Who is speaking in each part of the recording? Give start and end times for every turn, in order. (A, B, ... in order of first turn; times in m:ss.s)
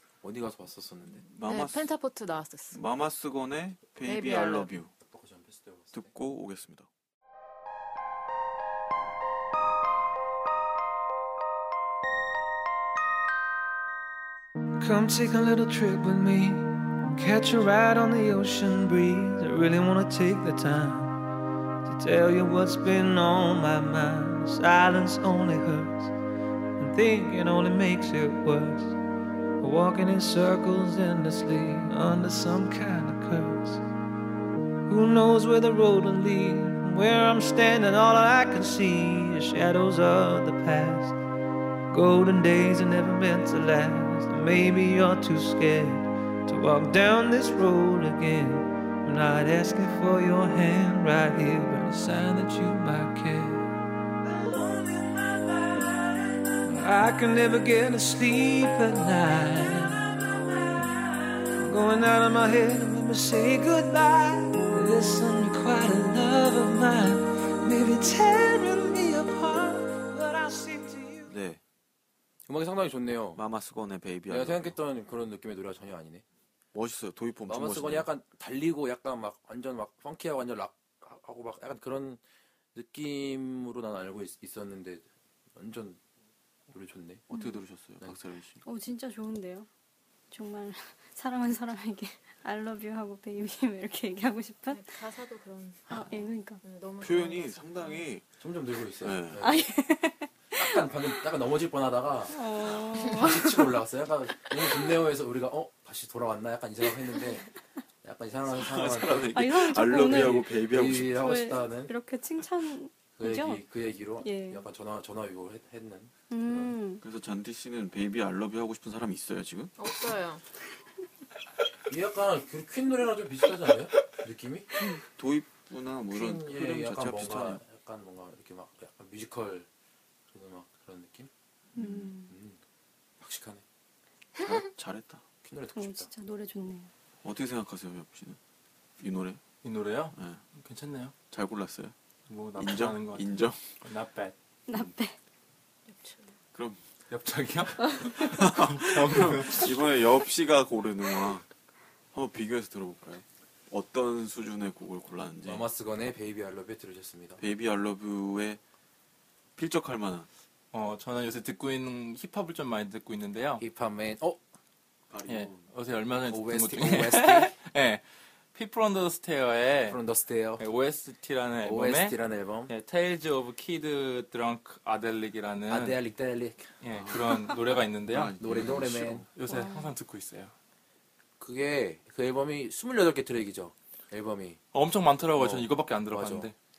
0:00.2-0:01.2 A
0:01.2-0:01.9 B
0:01.4-0:02.8 C
0:02.7-0:04.9 B
0:04.0-0:04.7 C
0:05.0-0:06.1 A
0:05.9-0:06.9 B
0:14.8-0:21.2 D
0:21.8-0:26.1 D
0:26.8-0:29.0 D
0:29.6-0:33.8 D
0:34.9-0:41.2 D
0:41.9-0:53.7 D
0:54.4-0:55.0 D
0:56.7-1:00.2 D
1:01.6-1:11.3 D
1:11.3-1:11.6 B
1:12.5-1:13.4 A
1:13.4-1:14.8 B
1:14.3-1:16.2 A
1:16.7-1:18.1 B
1:17.5-1:22.2 A
1:22.8-1:26.0 A
1:26.7-1:27.2 A
1:27.3-1:27.6 E
1:27.3-1:28.6 B
1:28.6-1:29.7 E
1:30.3-1:34.8 E
1:34.7-1:35.8 C
1:35.9-1:36.6 E
1:36.6-1:38.1 C
1:37.0-1:38.3 B
1:38.4-1:39.6 A
1:39.0-1:39.4 B
1:39.4-1:40.8 E
1:40.5-1:47.5 A
1:42.3-1:43.8 E
1:48.0-1:49.4 A
1:48.5-1:51.3 B
1:49.3-1:50.5 E
1:50.0-1:51.9 A
1:51.2-1:53.6 E
1:53.2-1:56.8 A
1:54.2-1:54.6 E
1:56.3-1:57.0 E
1:57.0-1:59.7 B
1:59.8-2:00.4 C
2:01.9-2:04.7 A
2:04.8-2:07.6 B
2:06.1-2:09.7 A
2:10.3-2:12.6 A
2:11.8-2:12.3 E
2:13.2-2:13.6 A
2:14.4-2:15.2 B
2:15.4-2:16.1 A
2:15.8-2:16.9 E
2:17.2-2:18.4 B
2:19.0-2:19.4 B
2:19.6-2:21.1 F
2:20.2-2:20.4 B
2:21.3-2:22.0 B
2:22.3-2:24.4 F
2:22.6-2:23.6 B
2:24.7-2:25.2 E
2:25.9-2:26.3 C
2:26.5-2:26.8 B
2:27.1-2:29.7 F
2:28.2-2:31.5 B
2:32.1-2:35.6 B
2:35.4-2:37.4 A
2:37.4-2:38.6 B
2:39.6-2:40.3 B
2:40.7-2:43.6 F
2:43.6-2:44.4 A
2:45.1-2:45.7 B
2:45.3-2:48.0 F
2:46.3-2:47.5 A
2:48.5-2:50.0 F
2:49.9-2:50.6 A
2:50.6-2:56.0 F
2:51.6-2:52.7 A
2:55.7-2:56.7 A
2:56.8-2:58.4 F
2:56.9-2:59.3 B
2:58.4-2:59.3 A
2:59.3-3:00.5 F
2:59.5-2:59.9 E
3:01.4-3:04.6 A
3:04.7-3:06.5 F
3:06.1-3:06.5 A